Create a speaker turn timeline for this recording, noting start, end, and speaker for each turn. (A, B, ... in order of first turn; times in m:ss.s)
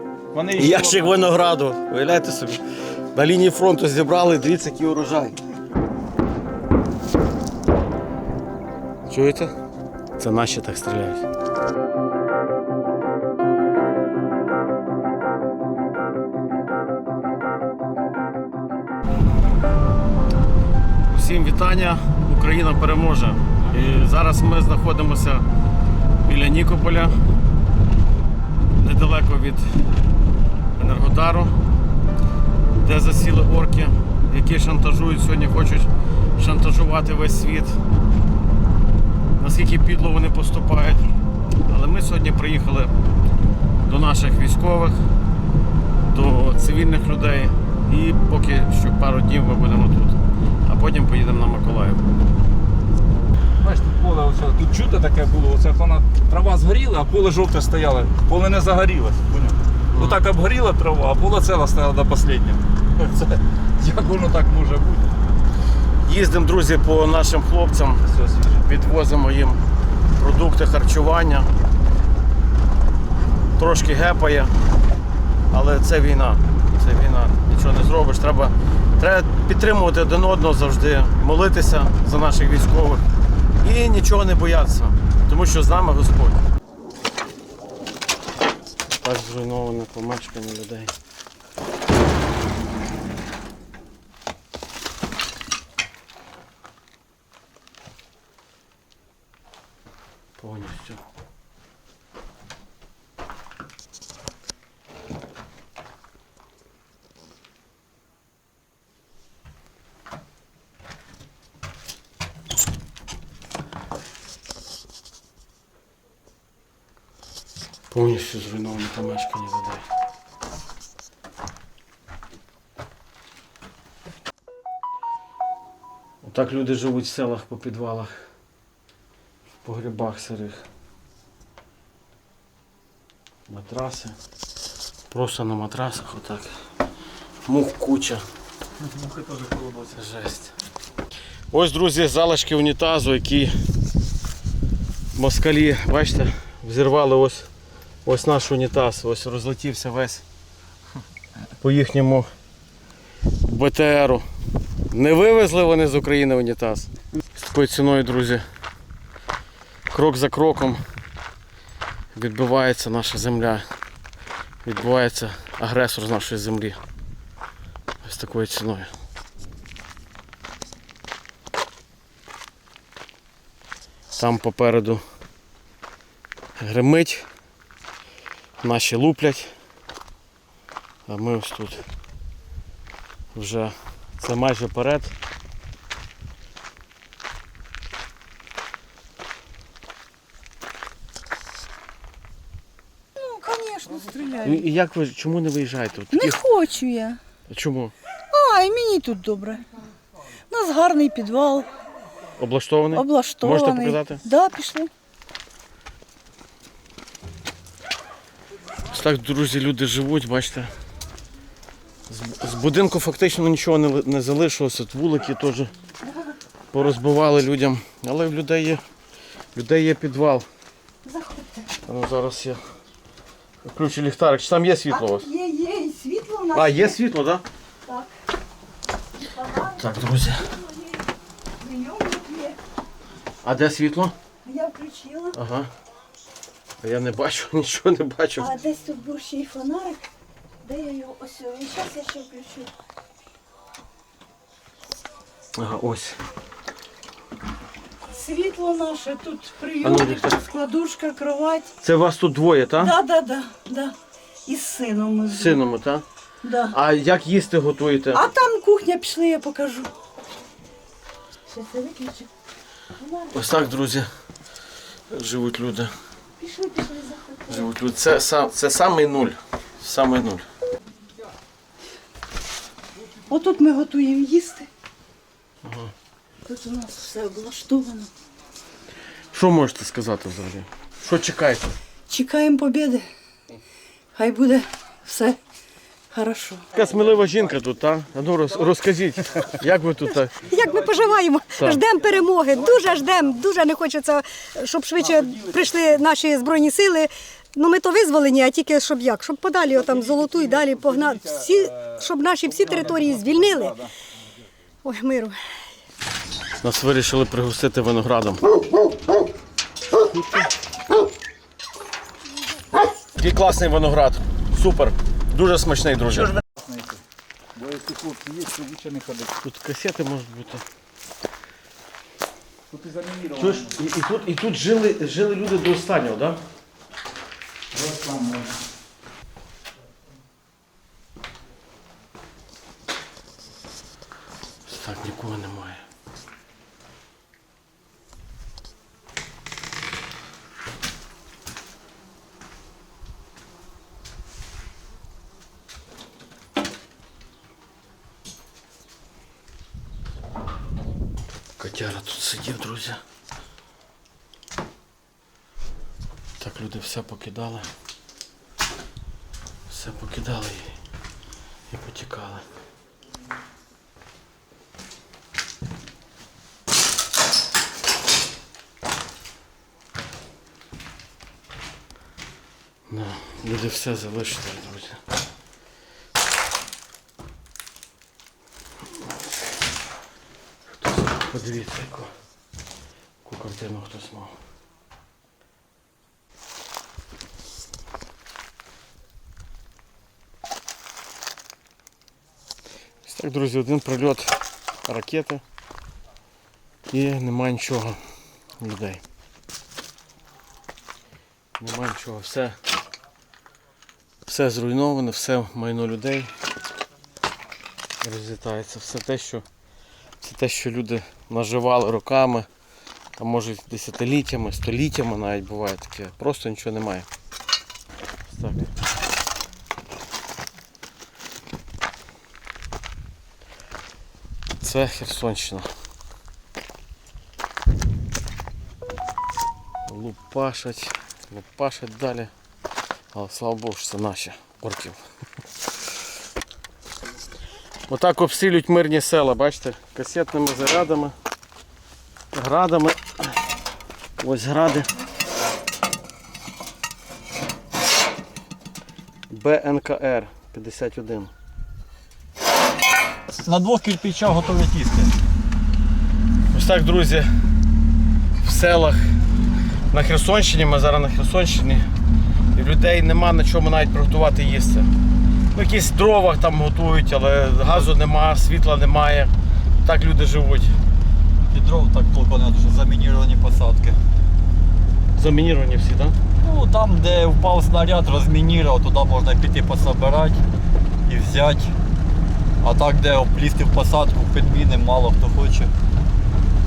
0:00.3-0:01.2 A
0:00.6-0:02.6 B
0:03.1-0:05.4 B
0:09.1-0:09.5 B
0:10.2-0:11.2 B
0:21.1-0:25.5 B
0:26.2-0:27.2 B
0:28.8-0:29.7 B
0:30.8-0:31.5 B
0:32.7-0:37.8 B
0:39.4-0:41.1 B
0:41.7-0:42.9 B
0:43.8-0:45.0 B
0:46.1-0:52.0 B
0:53.6-1:05.2 A
0:59.9-1:00.2 B
1:06.0-1:08.0 B
1:08.1-1:08.6 A
1:08.6-1:09.6 B
1:10.2-1:11.5 B
1:13.6-1:14.5 B
1:15.5-1:23.0 B
1:23.6-1:26.4 B
1:28.9-1:30.9 B
1:40.4-1:41.0 B
1:57.9-1:59.8 B
2:06.2-2:08.1 B
2:09.6-2:10.6 B
2:13.5-2:14.2 B
2:15.1-2:16.5 B
2:17.4-2:18.2 B
2:19.9-2:20.5 B
2:21.5-2:23.5 B
2:25.2-2:27.5 B
2:28.0-2:30.2 B
2:31.6-2:32.3 B
2:33.4-2:34.2 B
2:34.9-2:38.4 B
2:39.9-2:40.8 B
2:42.1-2:43.7 B
2:44.6-2:46.8 B
2:48.0-2:48.9 B
2:54.2-2:55.0 B
2:56.6-2:57.3 B
2:58.6-2:59.5 B
3:01.1-3:01.8 B
3:03.3-3:05.1 B
3:13.2-3:14.6 C
3:14.4-3:16.4 B
3:16.1-3:17.2 C
3:17.5-3:17.9 B
3:18.3-3:19.6 C
3:20.5-3:21.7 C
3:22.4-3:24.2 B
3:22.9-3:24.9 C
3:28.9-3:30.7 B
3:32.1-3:35.7 B
3:36.7-3:38.8 B
3:39.6-3:40.5 B
3:41.0-3:41.7 C
3:41.9-3:42.6 B
3:43.6-3:45.3 B
3:44.9-3:47.0 C
3:46.5-3:47.4 B
3:47.9-3:48.1 C
3:49.3-3:49.8 C
3:49.7-3:50.5 B
3:50.7-3:51.0 C
3:51.6-3:52.6 C
3:53.4-3:54.2 B
3:54.4-3:55.4 C
3:55.3-3:55.7 B
3:56.8-3:58.5 B
3:58.4-4:00.1 C
4:00.6-4:02.7 C
4:05.6-4:06.2 B
4:08.1-4:11.7 C
4:09.8-4:10.4 B
4:11.8-4:13.0 B
4:12.8-4:15.6 C
4:15.3-4:16.0 B
4:16.4-4:16.8 C
4:16.7-4:18.2 B
4:18.1-4:19.9 C
4:21.5-4:22.3 C
4:23.0-4:23.3 C
4:23.3-4:24.1 B
4:25.1-4:25.9 B
4:26.4-4:27.7 C
4:27.5-4:30.5 B
4:33.3-4:34.7 C
4:35.6-4:35.9 B
4:36.5-4:38.1 C
4:39.3-4:41.7 B
4:42.1-4:43.1 C
4:44.2-4:45.4 C
4:46.1-4:46.7 C
4:46.7-4:50.5 B
4:50.4-5:03.8 D
4:51.6-4:51.8 B
4:55.0-4:56.0 A
4:59.7-5:03.9 A
5:04.8-5:05.4 D
5:06.6-5:08.4 B
5:10.0-5:10.5 B
5:13.1-5:16.4 B
5:16.5-5:17.0 A
5:17.6-5:19.4 A
5:19.4-5:20.6 B
5:22.7-5:23.8 A
5:23.4-5:26.4 B
5:27.7-5:28.6 A
5:34.7-5:35.8 B
5:51.6-5:53.0 B
5:56.4-5:57.7 B
5:59.7-6:00.7 B
6:01.7-6:02.4 B
6:12.9-6:15.0 B
6:20.8-6:22.1 B
6:23.2-6:24.4 B
6:33.0-6:35.4 B
6:36.9-6:38.0 B
6:38.6-6:39.0 B
6:41.6-6:42.6 B
6:44.3-6:46.3 B
6:48.0-6:49.4 B
6:50.2-6:52.5 B
6:53.2-6:57.1 B
6:58.3-6:58.7 B
7:04.6-7:05.7 B
7:09.9-7:12.3 B
7:13.1-7:15.0 B
7:17.9-7:21.1 B
7:22.3-7:23.0 B
7:24.2-7:24.9 B
7:29.3-7:31.3 B
7:33.4-7:35.2 E
7:36.5-7:37.3 B
7:38.4-7:39.0 B
7:39.9-7:41.9 B
7:42.6-7:44.9 B
7:45.5-7:49.3 B
7:49.8-7:50.8 B
7:51.5-7:54.0 E
7:55.2-7:56.2 B
7:56.4-8:00.4 E
8:01.1-8:01.7 E
8:02.6-8:05.7 E